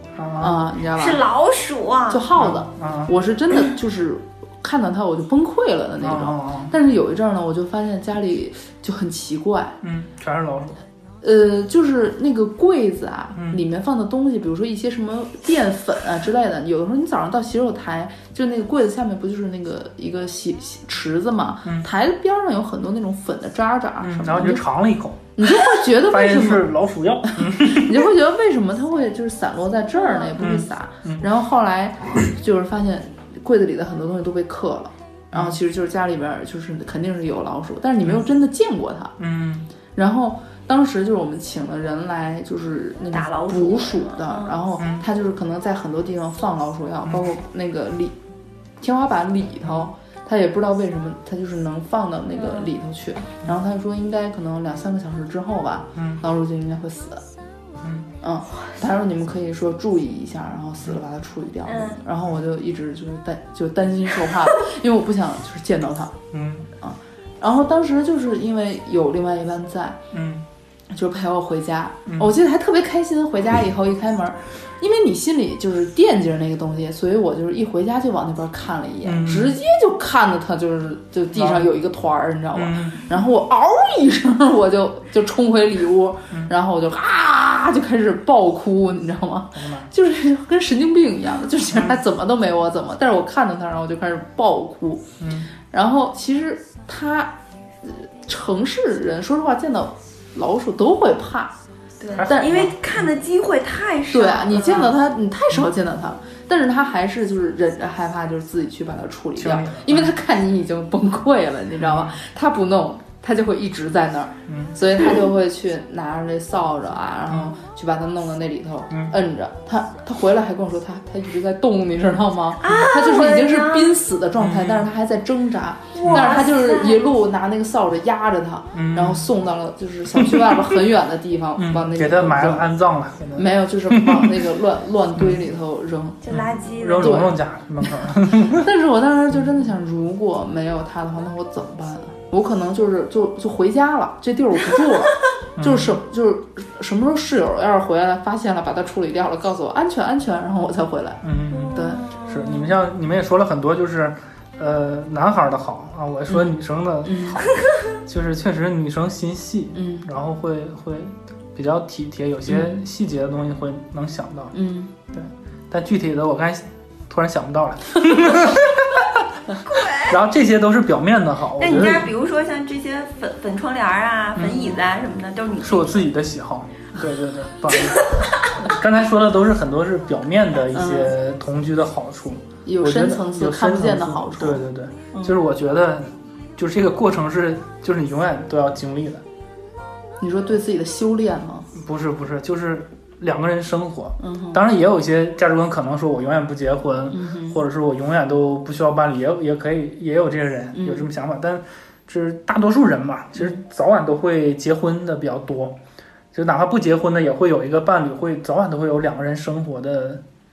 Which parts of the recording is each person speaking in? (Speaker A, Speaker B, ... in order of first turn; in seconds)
Speaker A: 0.2-0.7, 2.3-3.1, 6.0-6.7, 9.8-10.8, 13.3-13.6, 24.0-28.1, 30.4-31.3, 35.3-35.6, 39.2-39.7, 44.8-45.0, 47.0-47.3, 49.6-49.9, 56.0-56.2, 57.8-58.1, 66.3-66.7, 70.1-70.4, 72.0-72.3, 79.0-79.6, 81.3-81.7, 82.5-83.1, 89.5-89.9, 95.2-95.5, 102.2-103.1, 109.4-110.1, 111.8-112.2, 114.5-114.8, 117.3-117.5, 124.4-124.9, 126.1-126.3, 128.7-129.3, 131.6-134.3, 135.2-135.4, 136.3-138.7, 145.6-146.0, 151.2-164.5, 165.1-169.2, 169.9-172.1, 174.3-174.7, 175.6-189.2, 191.7-205.8, 206.3-210.2
Speaker B: 0.4-1.2, 2.1-9.8, 11.2-24.7, 25.4-26.7, 27.3-39.1, 39.9-48.1, 48.8-57.2, 58.2-66.2, 66.8-70.0, 70.9-101.5, 102.2-102.7, 104.1-132.7, 133.3-136.2, 137.0-151.2, 151.7-152.0, 156.3-157.4, 159.7-160.1, 162.5-162.8, 164.5-165.1, 180.7-181.1, 182.7-185.4, 190.2-191.7, 194.2-194.6, 197.1-197.6, 200.7-201.1
Speaker C: 0.9-2.2, 30.0-30.3, 43.1-44.6, 52.3-52.7, 61.6-62.0, 102.0-104.9, 122.6-123.9, 125.9-127.0, 136.2-137.3, 151.5-152.7, 169.7-170.2, 171.6-176.1, 177.8-178.5